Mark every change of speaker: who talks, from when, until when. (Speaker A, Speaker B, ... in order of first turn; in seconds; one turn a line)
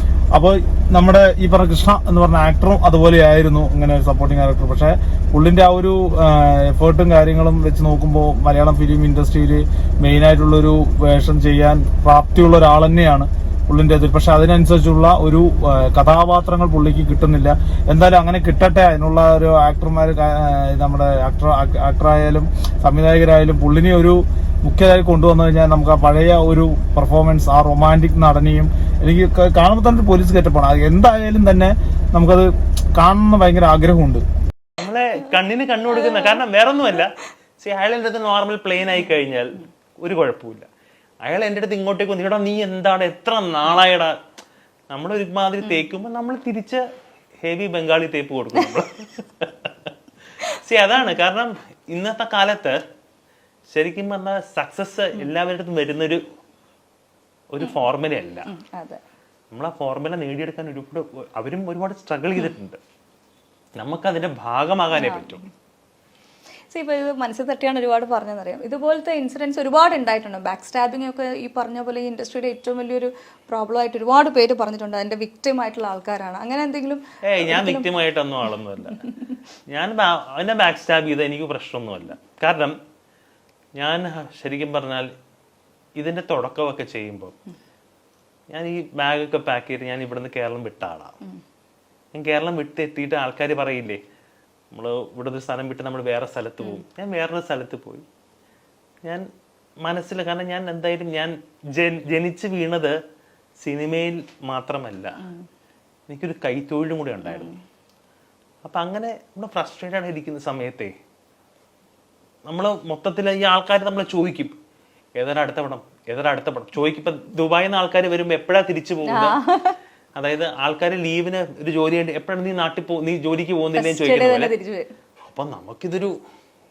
Speaker A: 0.3-34.2
Speaker B: 34.8-40.7
Speaker B: 41.2-44.1
Speaker B: 44.9-46.8
Speaker B: 47.4-49.9
Speaker B: 50.5-52.8
Speaker B: 53.7-56.2
Speaker B: 57.5-58.5
Speaker C: 58.5-59.0
Speaker B: 59.5-62.8
Speaker B: 63.8-65.4
Speaker C: 64.9-65.4
Speaker C: 66.7-77.9
Speaker B: 77.2-79.1
Speaker B: 79.7-82.8
Speaker B: 83.8-85.1
Speaker B: 86.0-87.3
Speaker B: 88.5-91.2
Speaker B: 92.1-94.0
Speaker B: 94.7-98.0
Speaker B: 99.8-103.0
Speaker B: 103.6-105.2
Speaker B: 106.1-107.5
Speaker C: 107.3-107.6
Speaker B: 108.6-110.9
Speaker B: 112.5-114.5
Speaker B: 115.2-119.4
Speaker C: 119.0-119.8
Speaker B: 120.2-124.5
Speaker C: 123.7-124.9
Speaker B: 125.3-126.1